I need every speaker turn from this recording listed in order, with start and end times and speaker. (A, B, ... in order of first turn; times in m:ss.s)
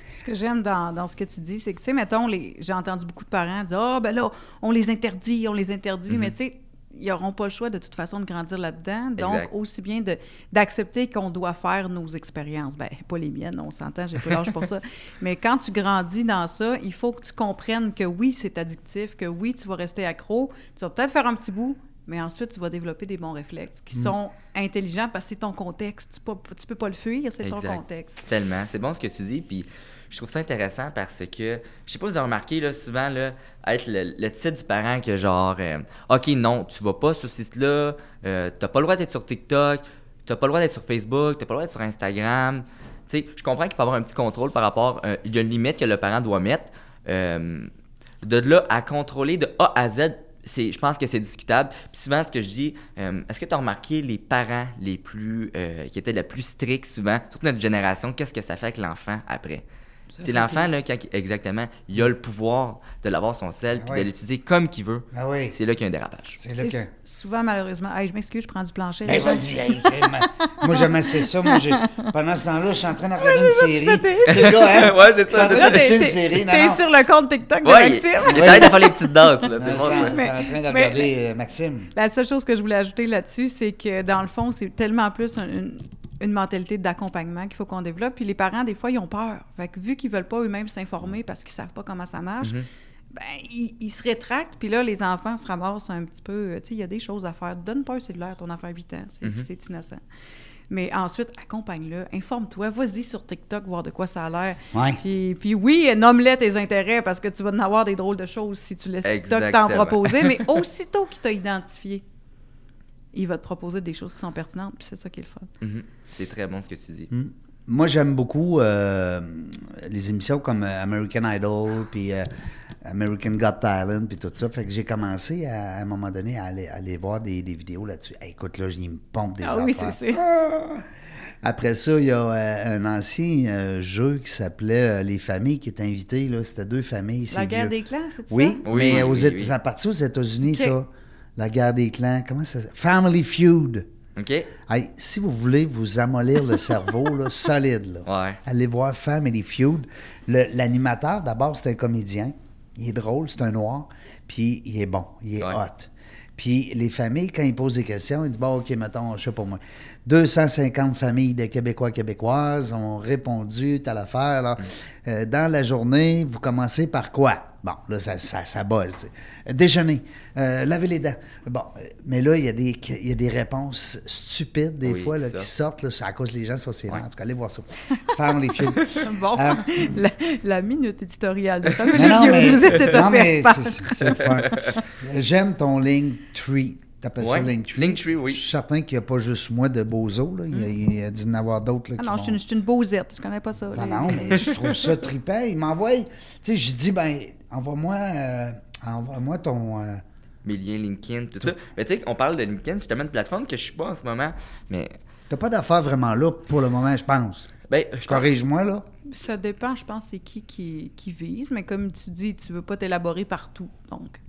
0:00.1-0:28.2 A
0:09.2-0:09.5 B
0:27.4-0:47.7 B
0:48.2-0:59.6 B
1:00.1-1:00.7 A
1:00.2-1:06.4 B
1:03.8-1:04.1 C
1:05.1-1:05.5 C
1:06.4-1:06.9 C
1:06.6-1:12.1 A
1:09.0-1:16.8 C
1:13.2-1:21.1 A
1:14.3-1:15.9 B
1:17.6-1:20.2 B
1:18.3-1:18.8 C
1:19.6-1:21.9 C
1:21.9-1:32.6 A
1:33.1-1:40.0 A
1:40.7-1:52.0 A
1:44.7-1:45.0 C
1:49.0-1:50.5 B
1:53.1-1:55.5 A
1:55.6-1:57.1 B
1:57.1-2:02.3 C
2:02.8-2:10.8 C
2:09.4-2:10.2 A
2:11.4-2:17.7 C
2:17.3-2:19.0 A
2:18.3-2:23.9 C
2:18.6-2:19.5 B
2:20.4-2:20.7 A
2:24.2-2:24.5 B
2:24.7-2:59.9 C
2:28.0-2:28.4 B
2:54.8-2:55.5 B
2:58.9-3:04.6 A
3:01.9-3:02.6 B
3:01.9-3:12.4 C
3:04.2-3:04.7 B
3:07.2-3:08.4 B
3:12.0-3:14.3 A
3:13.7-3:20.0 C
3:14.3-3:14.8 B
3:20.4-3:24.9 B
3:25.3-3:27.5 C
3:27.7-3:28.3 B
3:28.0-3:28.8 C
3:29.0-3:34.2 A